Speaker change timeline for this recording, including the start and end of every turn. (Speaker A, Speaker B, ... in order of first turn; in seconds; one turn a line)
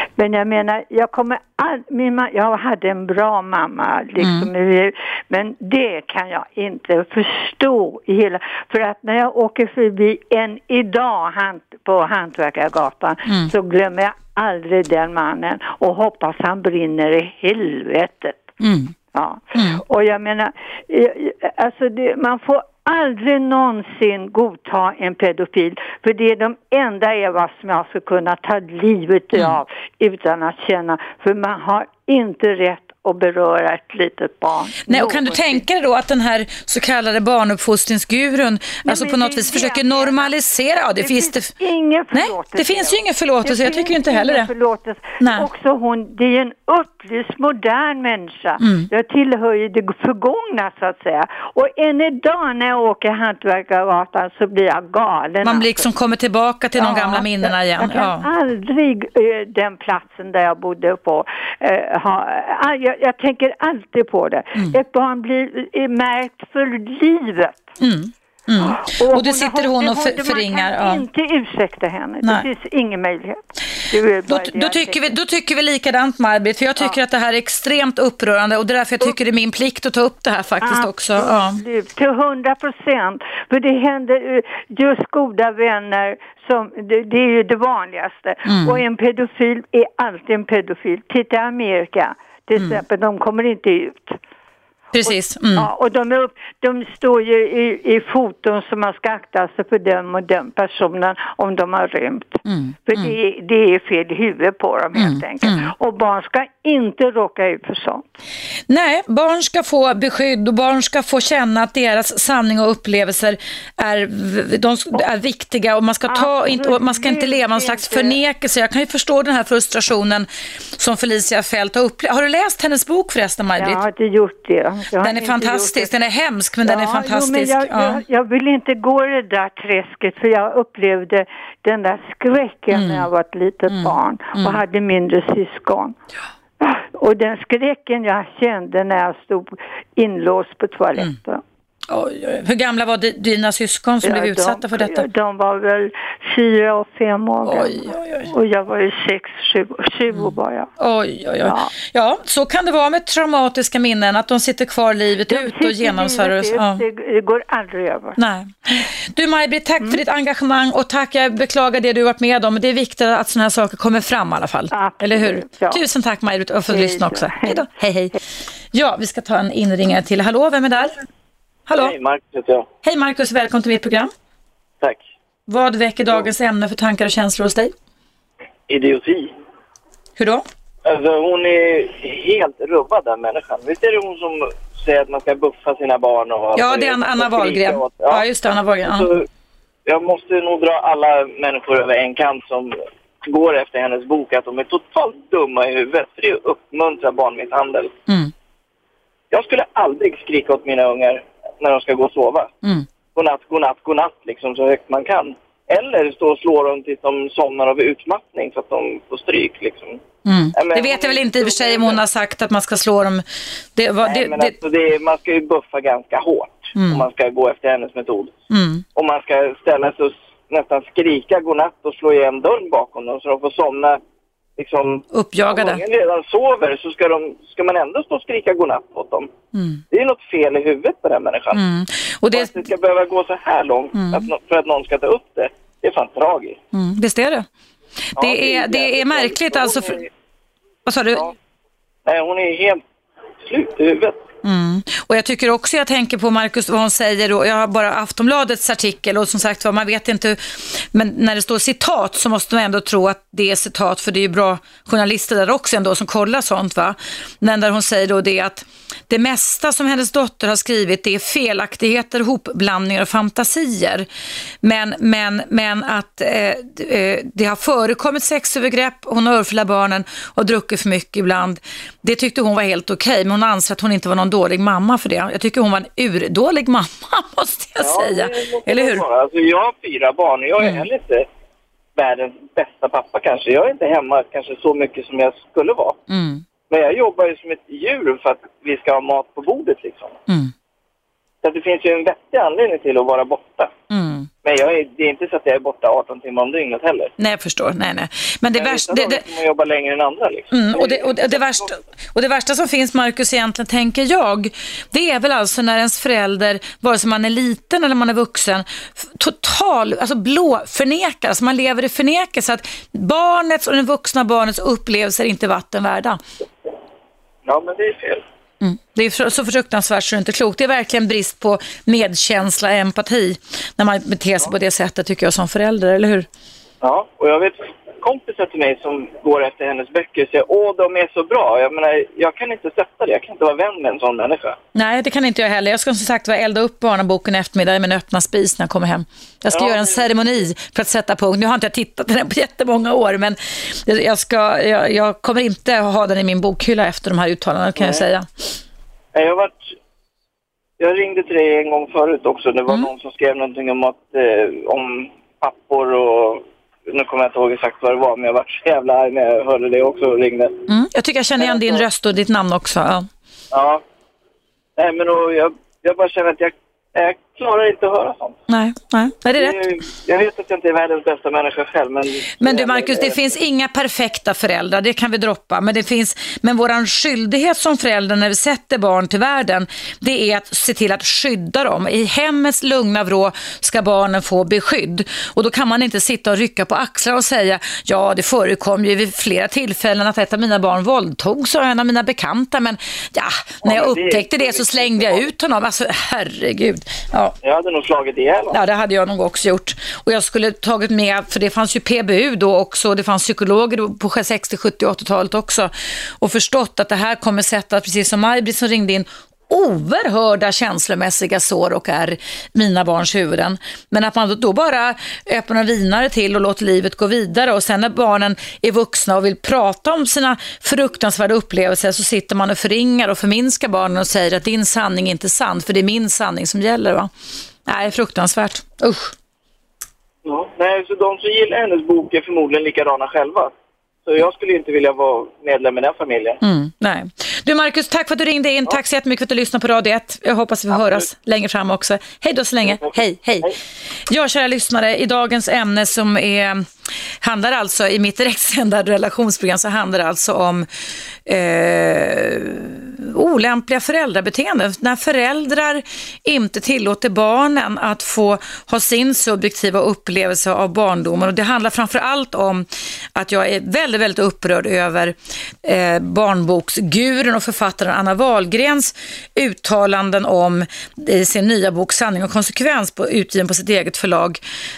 Speaker A: 0.2-18.5
Speaker B: 4.2-4.5
Speaker B: 18.6-18.9
Speaker A: 19.1-35.7
Speaker B: 19.6-19.8
Speaker B: 34.9-41.5
Speaker A: 38.8-40.3
Speaker A: 41.0-55.9
Speaker B: 42.1-44.5
Speaker B: 45.2-45.5
Speaker B: 48.6-48.9
Speaker B: 55.4-58.3
Speaker A: 56.7-67.6
Speaker B: 67.8-71.0
Speaker A: 68.6-75.1
Speaker B: 74.3-81.6
Speaker A: 80.6-94.2
Speaker B: 88.5-88.8
Speaker B: 94.9-95.7
Speaker A: 95.0-108.1
Speaker B: 102.5-103.1
Speaker B: 105.0-105.7
Speaker B: 108.7-123.8
Speaker A: 116.1-118.2
Speaker A: 123.6-125.9
Speaker B: 125.0-128.0
Speaker A: 126.6-135.9
Speaker B: 132.7-133.1
Speaker B: 133.7-134.6
Speaker A: 136.6-141.4
Speaker B: 141.9-145.1
Speaker A: 144.0-150.7
Speaker B: 147.4-148.3
Speaker B: 150.1-156.8
Speaker A: 151.4-151.7
Speaker A: 155.3-158.2
Speaker B: 158.2-168.2
Speaker A: 164.7-165.8
Speaker A: 166.7-167.7
Speaker B: 168.7-171.0
Speaker B: 171.7-171.9
Speaker C: 171.7-172.7
Speaker B: 172.8-174.1
Speaker C: 174.8-175.1
Speaker B: 175.5-177.7
Speaker C: 178.7-179.3
Speaker B: 180.2-180.4
Speaker C: 180.8-188.3
Speaker B: 186.6-189.1
Speaker C: 188.8-189.2
Speaker C: 189.8-192.7
Speaker C: 193.2-197.9
Speaker C: 199.3-202.5
Speaker C: 203.1-210.0
Speaker B: 210.2-213.2
Speaker C: 210.5-212.0
Speaker B: 213.8-214.6
Speaker C: 214.0-218.3
Speaker B: 216.8-217.1
Speaker B: 218.5-218.8
Speaker C: 218.9-224.0
Speaker C: 224.6-229.3
Speaker B: 225.1-225.8
Speaker B: 229.5-229.8
Speaker C: 229.9-231.6
Speaker B: 231.5-232.5
Speaker C: 232.3-236.6
Speaker B: 233.9-234.3
Speaker B: 236.7-237.5
Speaker B: 238.2-240.0
Speaker C: 238.2-240.1
Speaker B: 240.8-241.3
Speaker C: 242.1-242.8
Speaker C: 243.4-244.2
Speaker B: 244.4-264.1
Speaker B: 264.6-279.0
Speaker C: 277.8-281.3
Speaker C: 281.9-286.0
Speaker B: 286.1-286.4
Speaker C: 286.7-290.2
Speaker C: 291.4-293.7
Speaker B: 293.9-294.3
Speaker C: 294.4-297.1
Speaker B: 297.2-299.2
Speaker C: 298.5-301.6
Speaker B: 300.5-316.2
Speaker C: 317.4-318.2
Speaker B: 318.6-326.3
Speaker C: 326.8-334.6
Speaker B: 334.7-348.3
Speaker C: 339.5-340.0
Speaker C: 347.8-348.0
Speaker C: 349.1-349.7
Speaker C: 350.8-360.6
Speaker B: 360.7-363.1
Speaker C: 361.4-361.8
Speaker C: 363.5-363.8
Speaker C: 364.8-368.4
Speaker B: 368.5-369.6
Speaker C: 369.4-373.3
Speaker B: 372.4-397.4
Speaker C: 393.6-395.3
Speaker C: 397.4-398.6
Speaker B: 398.5-427.1
Speaker B: 427.6-429.1
Speaker C: 430.2-433.5
Speaker C: 434.1-436.4
Speaker B: 436.4-443.5
Speaker C: 440.7-441.1
Speaker C: 442.6-443.6
Speaker B: 444.1-446.7
Speaker B: 447.2-450.7
Speaker B: 451.2-474.4